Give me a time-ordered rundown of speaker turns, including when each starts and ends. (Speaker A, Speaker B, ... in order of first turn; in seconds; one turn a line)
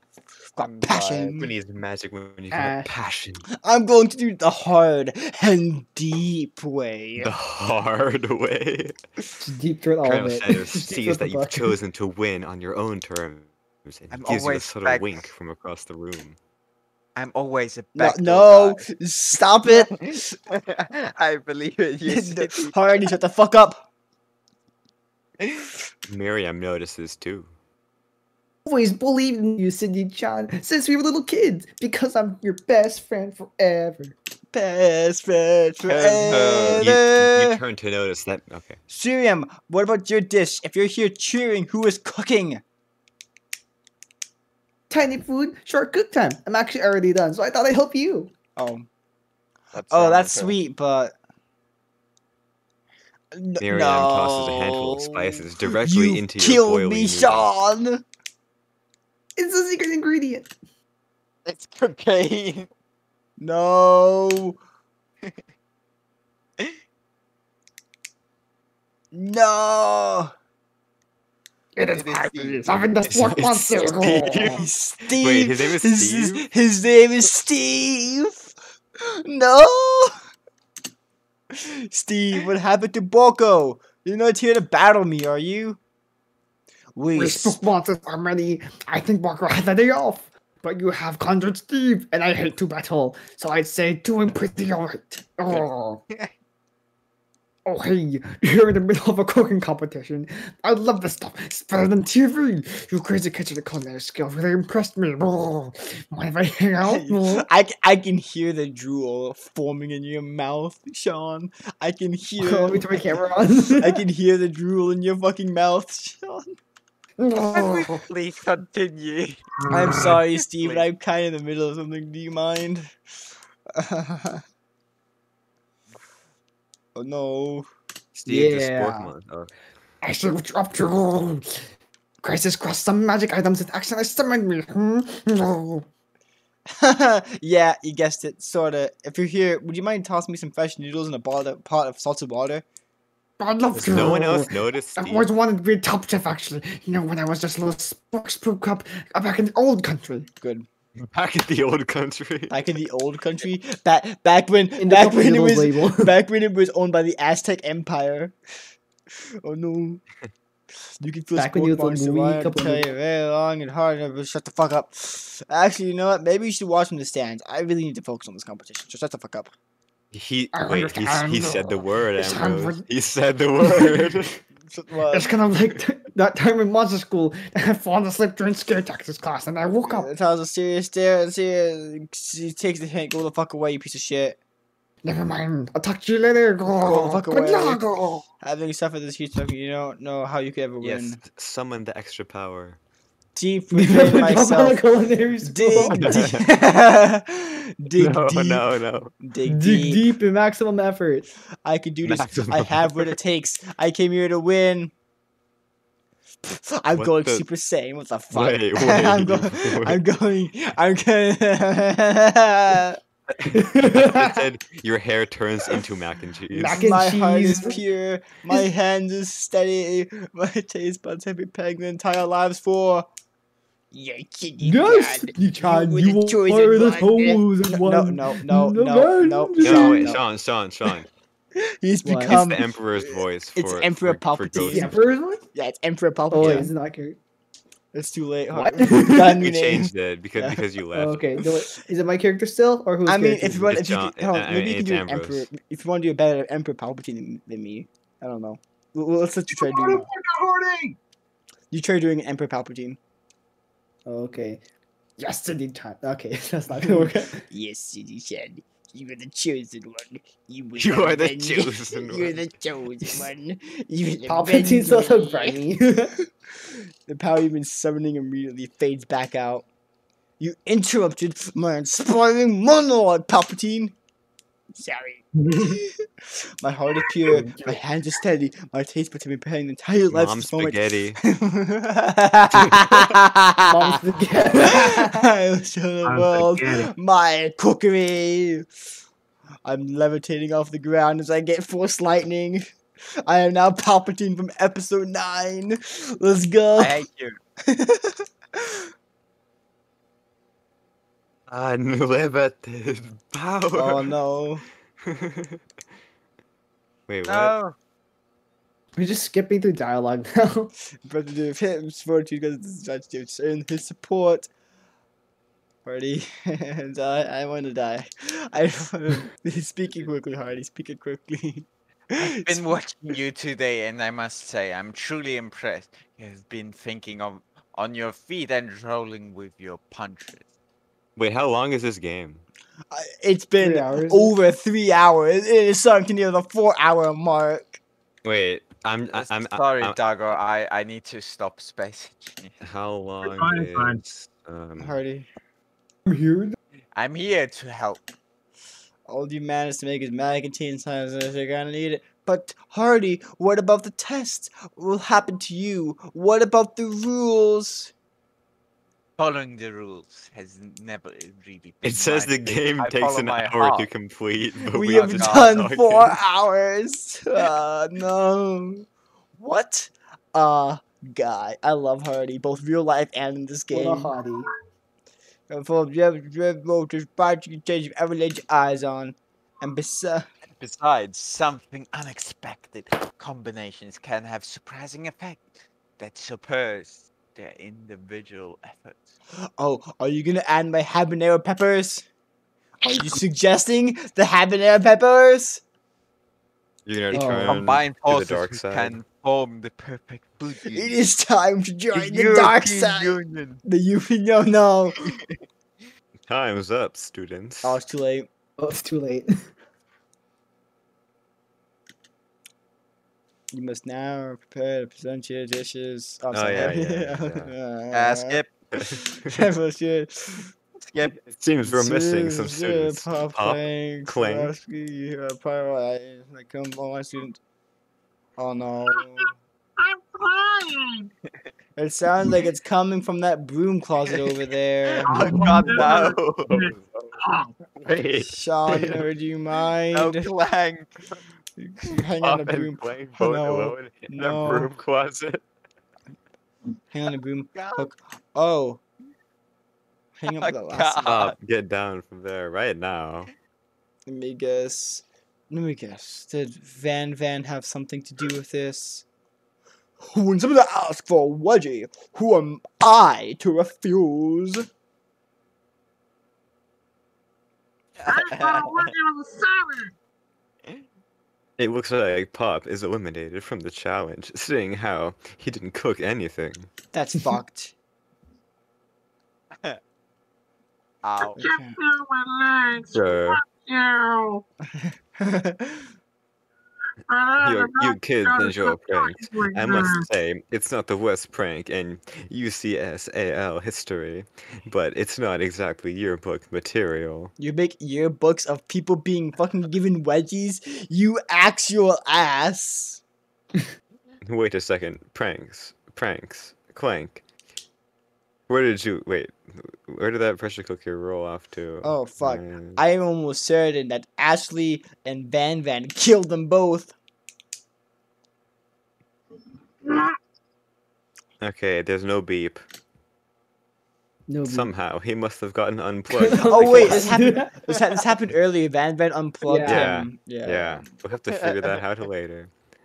Speaker A: 0.6-1.4
Speaker B: 0.8-1.5
Speaker C: 1.4-3.5
Speaker D: 2.5-2.9
Speaker B: 3.6-7.3
Speaker C: 7.2-9.0
Speaker D: 9.4-11.8
Speaker C: 10.0-16.4
Speaker A: 14.1-15.2
Speaker A: 17.1-18.9
Speaker B: 17.9-20.3
Speaker A: 19.7-23.1
Speaker B: 22.1-23.8
Speaker C: 26.1-27.5
Speaker D: 28.6-34.1
Speaker B: 34.5-37.6
Speaker A: 35.8-36.9
Speaker C: 36.7-38.8
Speaker B: 38.9-42.6
Speaker D: 44.9-48.3
Speaker B: 48.5-48.9
Speaker A: 49.7-50.6
Speaker B: 49.9-51.1
Speaker B: 53.3-58.0
Speaker C: 53.6-57.5
Speaker D: 59.4-60.5
Speaker A: 61.5-62.7
Speaker B: 63.4-64.6
Speaker B: 69.1-70.3
Speaker D: 71.8-74.6
Speaker A: 71.9-72.7
Speaker C: 73.0-76.5
Speaker B: 74.4-78.5
Speaker B: 79.0-80.2
Speaker B: 81.5-85.8
Speaker B: 86.9-87.6
Speaker D: 87.1-96.0
Speaker A: 95.5-96.3
Speaker D: 97.7-107.5
Speaker B: 106.8-113.2
Speaker D: 112.4-114.0
Speaker B: 113.8-116.5
Speaker D: 117.2-118.0
Speaker A: 117.5-119.4
Speaker E: 119.7-120.2
Speaker B: 119.7-122.9
Speaker A: 120.0-120.8
Speaker B: 123.7-124.4
Speaker B: 126.9-127.7
Speaker C: 128.1-129.6
Speaker D: 128.2-129.1
Speaker D: 130.0-131.6
Speaker D: 132.2-135.8
Speaker B: 136.8-142.6
Speaker D: 143.4-150.3
Speaker C: 143.7-145.3
Speaker B: 150.4-150.7
Speaker C: 151.0-152.6
Speaker B: 152.5-158.3
Speaker D: 154.8-156.1
Speaker B: 159.4-160.0
Speaker B: 161.0-169.5
Speaker D: 161.3-162.8
Speaker C: 170.1-174.4
Speaker D: 170.5-172.8
Speaker D: 173.6-174.0
Speaker B: 174.7-175.3
Speaker D: 175.1-180.1
Speaker B: 179.8-184.4
Speaker D: 185.0-188.2
Speaker B: 186.7-187.8
Speaker B: 188.4-191.2
Speaker C: 190.8-192.8
Speaker B: 193.3-194.8
Speaker D: 193.7-196.3
Speaker B: 195.4-198.7
Speaker C: 195.9-196.4
Speaker C: 198.0-199.1
Speaker B: 199.2-200.1
Speaker D: 199.5-201.3
Speaker B: 201.6-204.9
Speaker C: 202.0-203.2
Speaker B: 206.4-213.0
Speaker C: 206.9-207.4
Speaker C: 208.3-210.0
Speaker C: 213.4-216.9
Speaker D: 213.5-214.3
Speaker D: 216.5-217.8
Speaker B: 216.7-223.1
Speaker B: 223.9-230.2
Speaker D: 224.6-230.2
Speaker C: 229.6-231.1
Speaker B: 231.6-234.9
Speaker D: 232.0-232.4
Speaker C: 232.2-235.0
Speaker D: 234.6-235.4
Speaker B: 235.5-236.7
Speaker D: 236.3-237.2
Speaker B: 237.9-240.6
Speaker D: 238.5-239.4
Speaker C: 239.2-241.3
Speaker D: 240.9-243.7
Speaker B: 243.1-250.1
Speaker C: 243.7-245.5
Speaker E: 249.5-251.0
Speaker B: 251.7-253.0
Speaker D: 254.1-254.6
Speaker D: 255.2-257.4
Speaker B: 256.7-265.6
Speaker C: 260.8-262.4
Speaker D: 264.3-266.1
Speaker B: 266.6-269.6
Speaker B: 270.4-273.9
Speaker B: 274.7-284.0
Speaker E: 275.4-275.8
Speaker E: 277.3-277.6
Speaker C: 280.1-281.2
Speaker D: 283.6-285.2
Speaker B: 284.5-288.6
Speaker E: 286.1-286.9
Speaker B: 289.6-292.6
Speaker B: 293.2-297.0
Speaker A: 296.8-297.4
Speaker B: 297.7-298.8
Speaker C: 301.5-304.1
Speaker B: 303.7-304.6
Speaker C: 305.0-305.6
Speaker C: 307.1-307.6
Speaker A: 307.2-307.7
Speaker D: 309.0-310.7
Speaker B: 311.0-314.5
Speaker B: 315.8-321.7
Speaker A: 322.2-330.5
Speaker B: 322.2-323.2
Speaker C: 331.1-332.4
Speaker B: 332.9-337.8
Speaker D: 333.6-334.3
Speaker C: 338.2-340.0
Speaker A: 339.1-342.6
Speaker C: 342.6-345.0
Speaker E: 343.2-344.0
Speaker B: 344.8-345.3
Speaker D: 346.1-346.6
Speaker A: 346.9-348.0
Speaker B: 349.1-357.9
Speaker A: 359.2-363.9
Speaker C: 361.8-366.2
Speaker B: 364.7-368.9
Speaker A: 364.8-365.6
Speaker B: 369.4-374.1
Speaker D: 373.7-374.5
Speaker B: 375.5-380.3
Speaker A: 380.5-389.1
Speaker B: 389.6-392.1
Speaker B: 392.9-395.6
Speaker C: 396.9-399.0
Speaker A: 397.1-400.9
Speaker D: 397.1-397.6
Speaker B: 400.6-405.0
Speaker A: 401.9-403.6
Speaker C: 406.3-407.8
Speaker B: 407.6-408.3
Speaker D: 408.6-409.4
Speaker B: 413.5-420.5
Speaker C: 416.3-417.5
Speaker A: 417.9-418.5
Speaker C: 418.7-419.0
Speaker A: 420.8-421.2
Speaker C: 421.2-424.6
Speaker B: 421.6-427.4
Speaker B: 428.4-429.3
Speaker E: 429.8-431.1
Speaker B: 431.8-435.1
Speaker A: 435.0-436.5
Speaker E: 435.1-437.5
Speaker C: 435.2-437.1
Speaker C: 437.8-439.0
Speaker B: 438.3-440.3
Speaker A: 439.9-441.2
Speaker B: 441.6-444.7
Speaker C: 442.2-445.4
Speaker B: 446.9-448.8
Speaker A: 447.5-447.9
Speaker B: 450.2-451.1
Speaker A: 450.3-451.4
Speaker C: 451.0-453.3
Speaker B: 454.1-459.1
Speaker B: 460.0-464.7
Speaker A: 468.0-468.9
Speaker E: 468.1-469.9
Speaker C: 471.6-476.7
Speaker B: 476.9-477.7
Speaker A: 481.0-481.4
Speaker B: 481.4-481.8
Speaker E: 481.4-484.4
Speaker C: 482.9-483.4
Speaker B: 484.7-485.9
Speaker E: 487.1-490.1
Speaker C: 487.4-497.3
Speaker B: 497.4-503.0
Speaker C: 504.2-507.2
Speaker C: 508.5-512.8
Speaker B: 511.8-516.9
Speaker E: 519.8-520.1
Speaker C: 521.4-522.6
Speaker D: 524.3-524.7
Speaker C: 524.4-527.3
Speaker D: 526.1-527.5
Speaker B: 526.5-530.9
Speaker D: 529.4-530.0
Speaker C: 529.7-532.5
Speaker A: 531.3-531.8